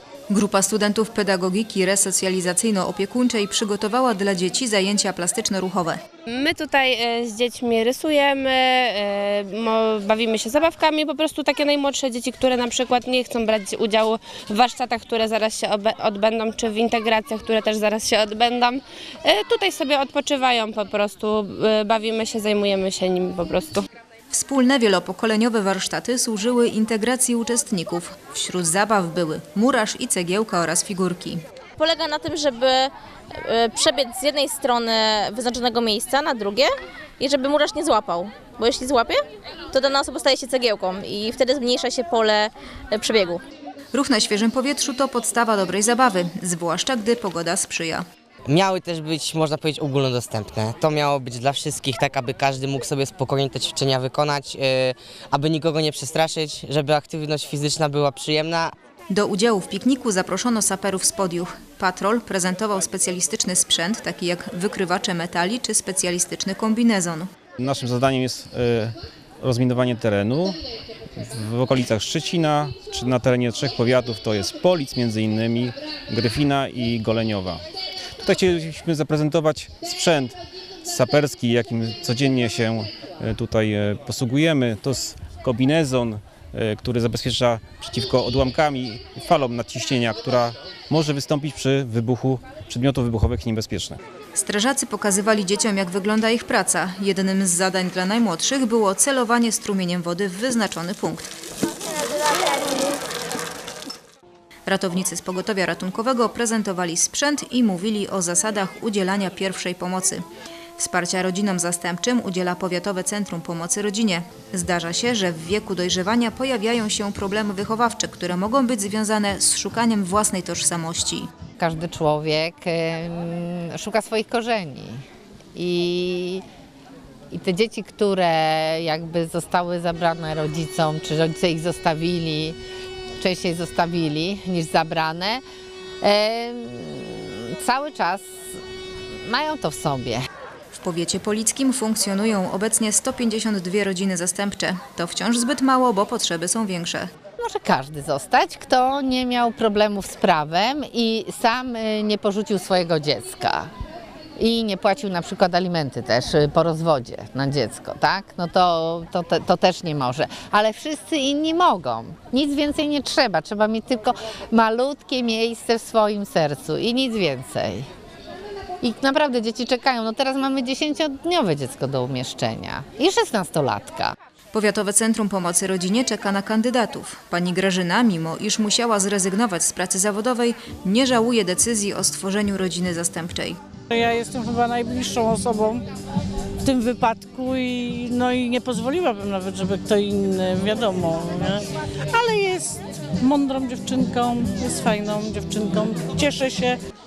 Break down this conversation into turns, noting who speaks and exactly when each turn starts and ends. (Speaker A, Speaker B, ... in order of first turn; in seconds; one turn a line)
Speaker A: 0.3-6.0
Speaker B: 6.3-23.8
Speaker A: 24.3-31.4
Speaker C: 31.8-39.2
Speaker C: 39.7-43.4
Speaker A: 43.9-48.0
Speaker D: 48.5-58.7
Speaker A: 59.1-67.3
Speaker E: 67.6-70.6
Speaker E: 71.2-77.6
Speaker E: 78.2-94.0
Speaker A: 94.3-101.3
Speaker A: 104.7-110.2
Speaker A: 110.8-121.3
Speaker F: 121.6-125.0
Speaker F: 125.5-126.4
Speaker F: 127.3-132.6
Speaker F: 133.2-135.4
Speaker F: 136.0-138.3
Speaker F: 139.2-140.2
Speaker A: 140.7-147.1
Speaker F: 147.4-153.7
Speaker F: 154.4-167.9
Speaker F: 168.8-174.1
Speaker A: 174.5-183.6
Speaker G: 183.9-185.8
Speaker G: 186.6-196.8